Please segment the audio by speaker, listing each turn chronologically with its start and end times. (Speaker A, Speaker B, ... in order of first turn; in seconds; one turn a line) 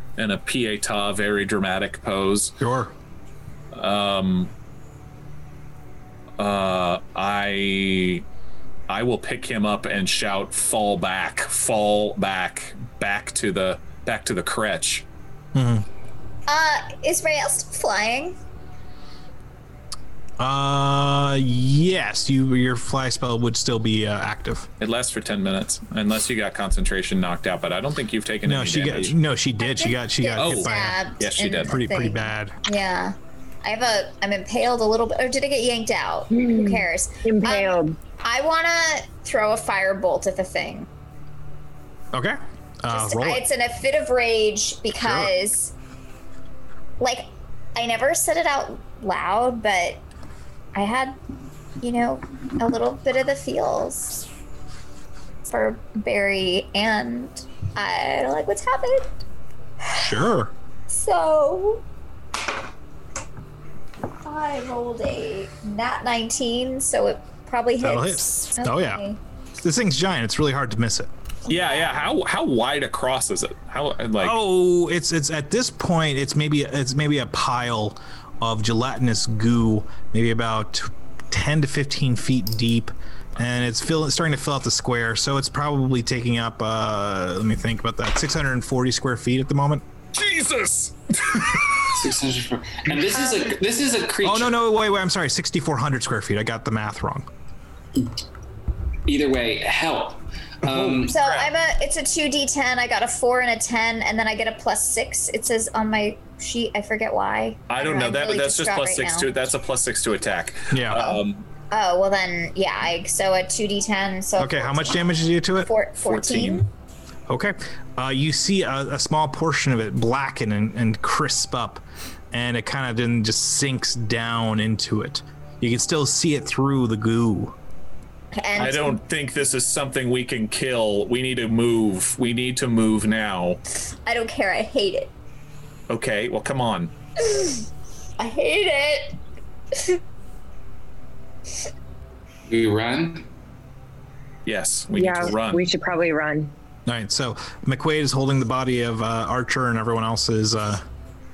Speaker A: 0.2-2.6
Speaker B: 2.6-2.9
Speaker A: 3.7-4.5
Speaker A: 6.4-8.2
Speaker A: 8.9-15.1
Speaker B: 15.5-15.9
Speaker C: 16.5-18.4
Speaker B: 20.4-24.7
Speaker A: 24.8-29.1
Speaker B: 28.4-31.0
Speaker C: 29.6-40.9
Speaker A: 30.4-31.7
Speaker B: 31.7-32.5
Speaker D: 36.3-38.0
Speaker B: 42.1-43.4
Speaker C: 42.9-45.7
Speaker B: 45.0-45.3
Speaker C: 47.0-50.0
Speaker C: 50.8-51.2
Speaker C: 51.8-54.2
Speaker C: 55.5-59.2
Speaker C: 59.9-60.1
Speaker B: 59.9-60.5
Speaker C: 60.9-61.8
Speaker C: 64.2-69.2
Speaker B: 67.8-69.0
Speaker B: 69.6-71.1
Speaker C: 71.5-72.0
Speaker A: 71.5-74.4
Speaker B: 74.2-89.8
Speaker A: 90.1-91.8
Speaker E: 91.9-94.6
Speaker B: 94.2-97.3
Speaker E: 99.1-101.2
Speaker A: 100.7-101.5
Speaker C: 101.1-109.3
Speaker A: 107.7-111.5
Speaker B: 110.7-111.2
Speaker C: 111.7-116.7
Speaker B: 114.4-115.7
Speaker A: 116.0-116.7
Speaker B: 117.3-127.5
Speaker C: 128.3-129.0
Speaker A: 128.6-133.6
Speaker C: 134.1-135.1
Speaker A: 135.9-136.9
Speaker C: 138.2-139.2
Speaker E: 142.5-143.3
Speaker A: 144.4-145.7
Speaker D: 145.0-146.5
Speaker B: 146.9-150.8